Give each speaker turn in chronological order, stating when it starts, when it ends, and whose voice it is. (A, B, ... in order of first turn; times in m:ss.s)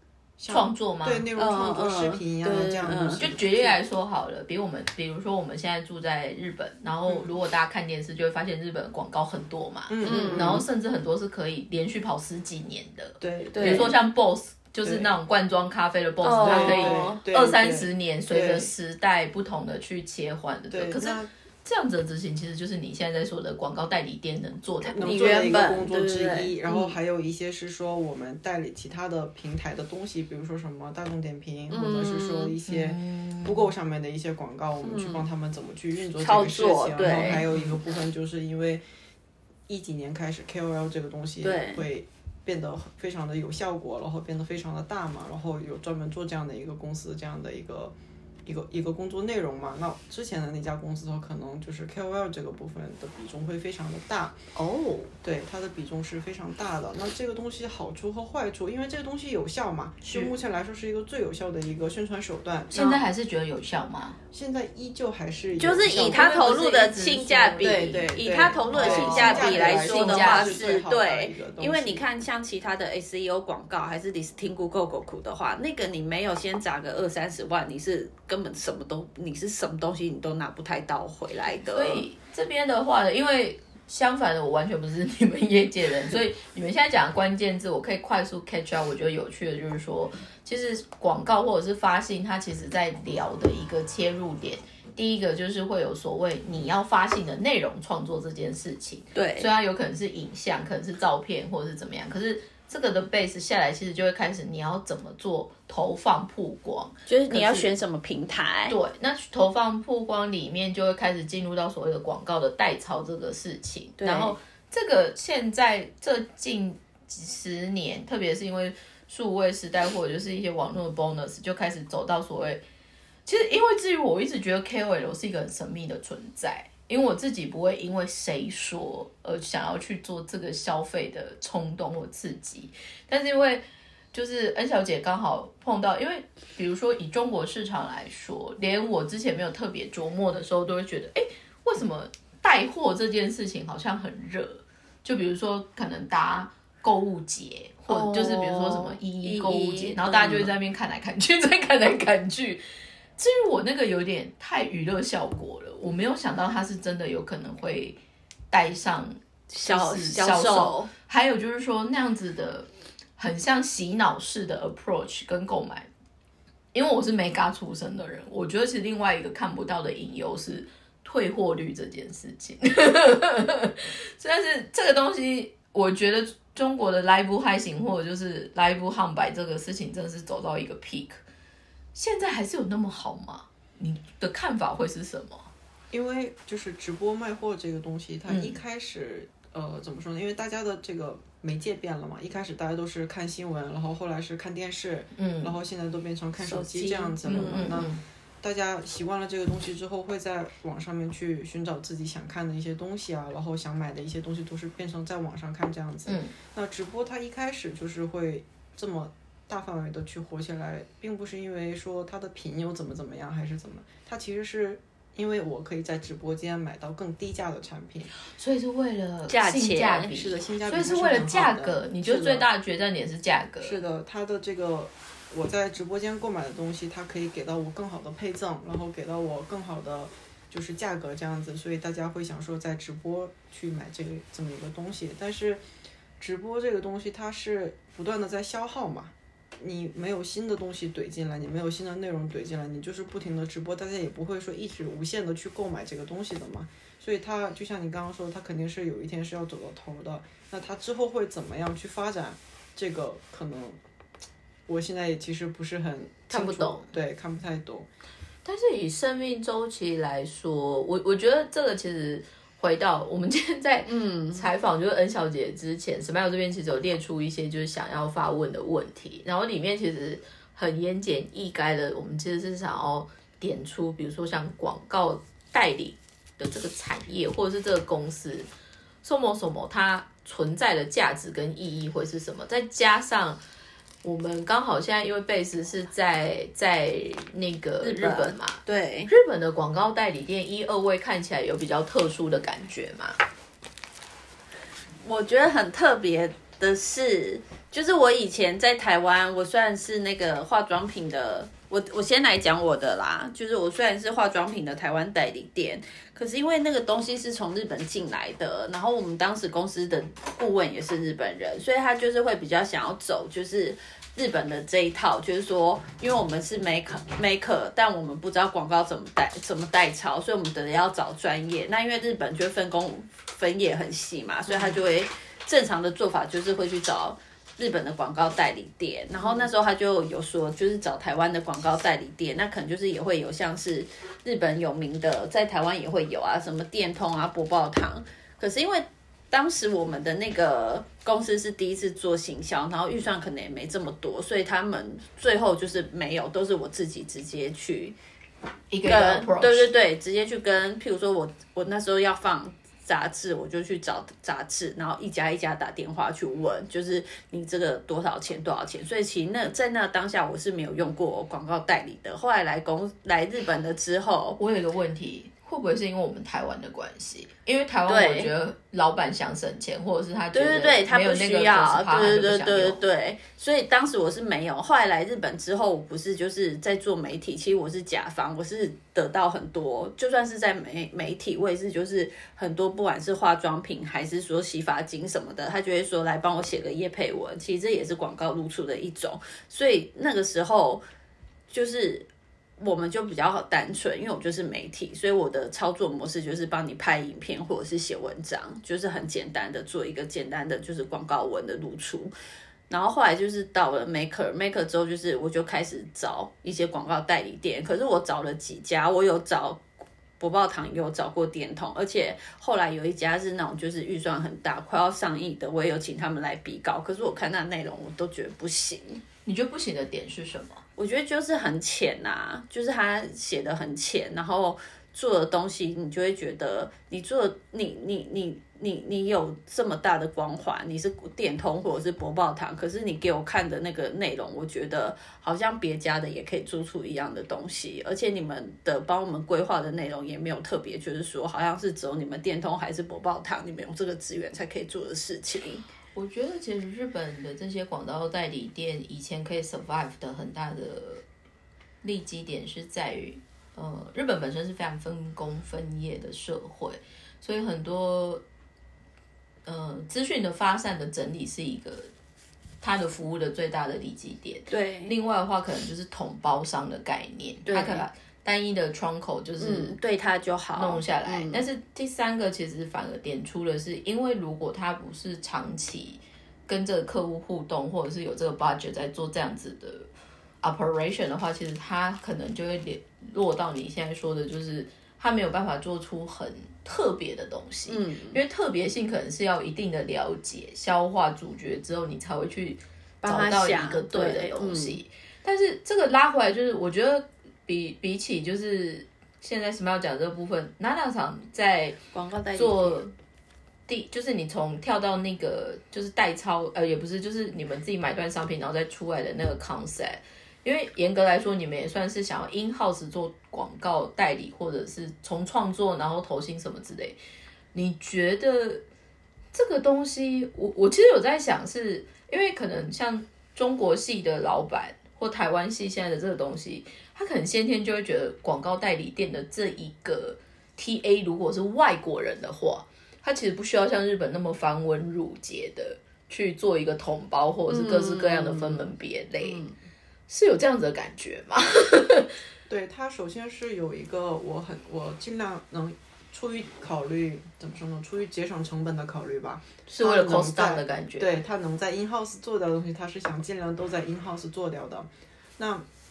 0:00.4-0:03.8 A
0:00.5-0:01.3 B
0:01.4-0:03.2 C
0:03.2-0:25.5 B
0:07.1-0:07.4 A
0:09.9-0:10.7 A
0:10.0-0:10.6 C
0:13.2-0:14.0 A
0:13.5-0:13.9 C
0:14.8-0:15.1 A
0:16.2-0:17.2 C
0:16.4-0:18.7 A
0:20.7-0:21.3 A
0:24.9-0:38.8 A
0:25.0-0:26.9 C
0:31.7-0:32.6 C
0:32.7-0:33.7 B
0:34.8-0:35.3 C
0:36.2-0:37.5 C
0:37.3-0:37.8 B
0:39.7-0:54.5 A
0:41.4-0:41.9 C
0:54.6-0:55.1 B
0:55.2-1:03.0 A
1:02.7-1:04.2 B
1:04.3-1:06.4 A
1:05.6-1:22.0 C
1:06.0-1:08.1 B
1:07.6-1:12.0 A
1:08.7-1:10.7 B
1:21.7-1:47.7 B
1:39.2-1:39.5 C
1:47.1-1:48.8 C
1:48.7-2:02.6 B
1:54.0-1:54.4 C
2:03.3-2:32.6 B
2:27.9-2:30.5 C
2:33.2-2:38.0 B
2:38.5-2:45.9 B
2:39.5-2:40.9 C
2:46.7-3:01.2 B
3:02.0-3:05.5 B
3:05.9-3:38.1 A
3:08.3-3:08.6 B
3:15.2-3:15.6 B
3:16.4-3:17.8 C
3:17.2-3:18.0 B
3:26.1-3:26.3 B
3:38.3-3:43.8 B
3:39.3-3:40.1 C
3:40.1-3:42.5 A
3:43.6-3:55.6 A
3:56.2-4:13.8 A
4:14.7-4:17.9 A
4:16.3-4:16.9 B
4:18.4-4:38.5 B
4:23.9-4:24.5 C
4:39.0-4:43.4 B
4:44.0-4:53.2 B
4:47.8-4:49.1 C
4:55.0-5:48.0 C
5:48.7-5:49.7 B
5:48.8-6:04.4 C
6:04.4-6:12.8 B
6:07.9-6:08.3 C
6:10.3-6:30.8 C
6:31.5-6:32.1 C
6:32.6-6:42.1 C
6:42.7-6:49.6 C
6:50.2-6:59.0 C
6:59.3-7:00.6 B
7:00.8-7:25.6 C
7:26.0-7:31.0 B
7:31.8-7:38.2 B
7:39.5-7:41.9 B
7:42.6-7:49.8 B
7:44.5-7:44.9 C
7:47.5-7:47.9 C
7:49.4-7:51.5 C
7:50.6-7:59.9 B
8:00.4-8:21.8 B
8:07.7-8:08.2 C
8:13.0-8:14.8 C
8:21.9-8:22.8 C
8:22.4-8:22.9 B
8:23.7-8:37.0 B
8:37.5-8:38.6 B
8:39.3-8:59.4 B
8:57.5-8:59.6 C
9:00.1-9:02.1 B
9:02.5-9:15.7 A
9:09.7-9:11.2 B